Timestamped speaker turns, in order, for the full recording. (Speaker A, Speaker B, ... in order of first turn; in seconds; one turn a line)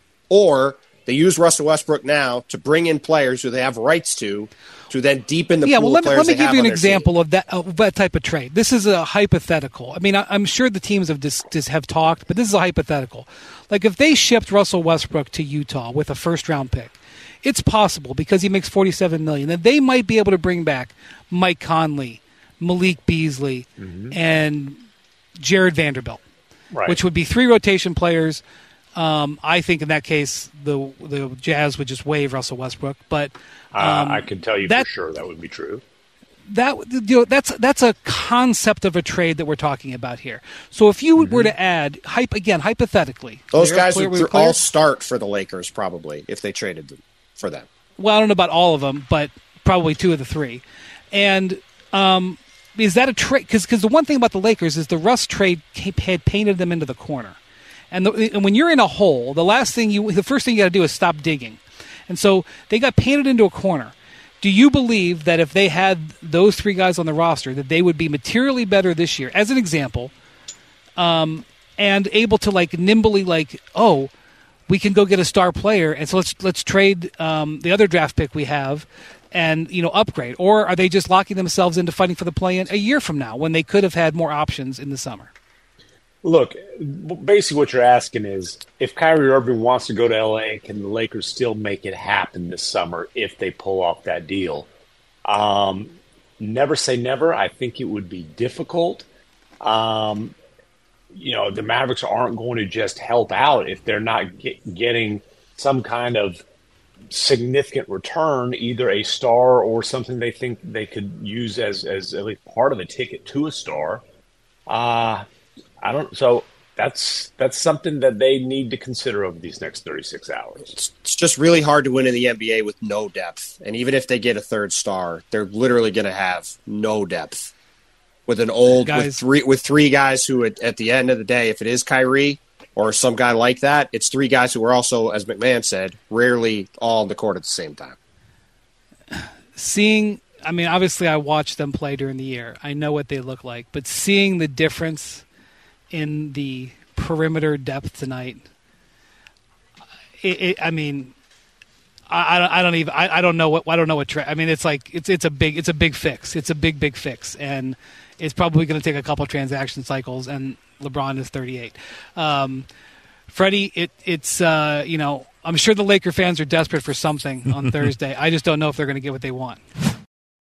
Speaker A: 0.3-7.1
Speaker B: 5.6-24.8
Speaker C: 23.8-24.1
Speaker B: 25.4-26.2
Speaker C: 26.7-27.0
Speaker B: 26.9-28.4
Speaker B: 28.9-34.9
Speaker C: 33.7-35.8
Speaker B: 36.5-44.6
Speaker C: 41.2-41.5
Speaker A: 43.5-47.7
Speaker B: 48.0-57.4
Speaker B: 57.9-70.1
Speaker B: 71.0-74.1
Speaker B: 74.7-85.3
Speaker C: 86.2-94.7
Speaker C: 95.2-99.0
Speaker C: 99.6-100.3
Speaker C: 101.1-106.4
Speaker C: 107.1-114.0
Speaker C: 114.7-115.2
Speaker C: 115.8-120.8
Speaker A: 120.8-127.5
Speaker A: 128.3-138.0
Speaker B: 128.7-129.2
Speaker B: 139.2-145.2
Speaker B: 145.9-148.4
Speaker B: 150.2-151.1
Speaker B: 152.1-162.7
Speaker B: 163.3-169.6